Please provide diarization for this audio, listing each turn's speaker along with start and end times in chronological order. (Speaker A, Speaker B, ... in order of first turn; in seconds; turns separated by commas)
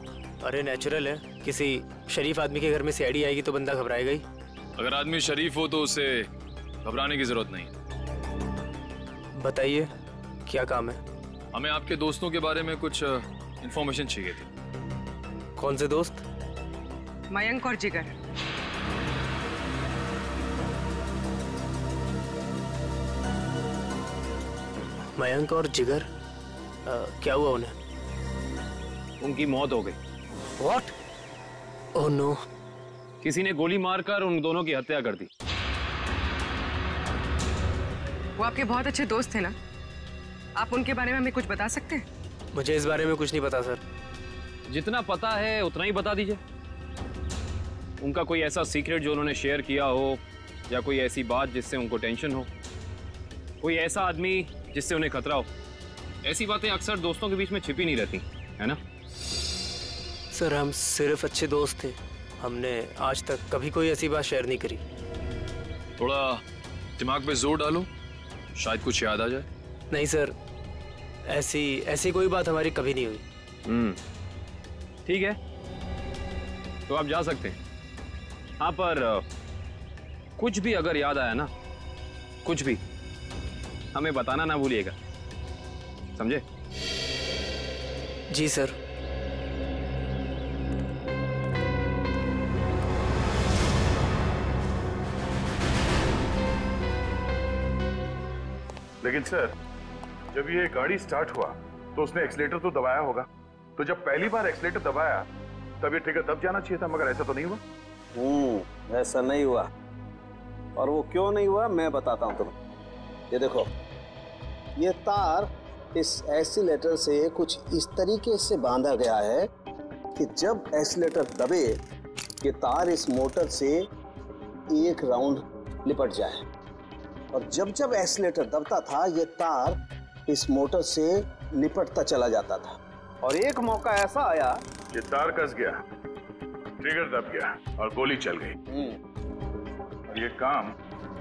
Speaker A: 0.4-4.2, Speaker B: 4.8-6.3, Speaker B: 6.8-7.7, Speaker A: 9.3-9.9, Speaker A: 10.5-11.0, Speaker B: 11.5-14.5, Speaker A: 15.6-16.2, Speaker C: 17.3-18.1, Speaker A: 25.1-26.1, Speaker A: 26.9-27.7, Speaker D: 29.2-30.0, Speaker A: 30.6-30.9, Speaker A: 31.9-32.4, Speaker D: 33.2-35.3, Speaker C: 38.4-39.5, Speaker C: 40.6-42.0, Speaker A: 42.5-43.8, Speaker D: 44.7-46.4, Speaker D: 48.0-52.5, Speaker D: 53.6-55.5, Speaker D: 56.2-58.8, Speaker A: 60.3-64.8, Speaker B: 66.0-66.4, Speaker B: 67.0-67.9, Speaker B: 68.5-69.5, Speaker A: 69.9-70.3, Speaker A: 71.2-73.2, Speaker D: 73.7-74.0, Speaker D: 75.1-75.4, Speaker D: 76.9-77.6, Speaker D: 78.6-79.2, Speaker D: 80.4-81.5, Speaker D: 82.4-82.8, Speaker D: 83.9-84.9, Speaker D: 86.2-86.4, Speaker A: 88.3-88.7, Speaker E: 99.0-99.5, Speaker E: 100.3-105.2, Speaker E: 105.8-107.6, Speaker F: 108.1-109.7, Speaker F: 110.8-112.5, Speaker F: 113.3-113.7, Speaker F: 114.8-119.5, Speaker F: 120.1-121.8, Speaker F: 122.4-123.8, Speaker F: 124.7-126.4, Speaker F: 127.3-134.6, Speaker E: 134.9-135.8, Speaker E: 136.8-138.6, Speaker F: 138.7-138.9, Speaker E: 140.1-140.7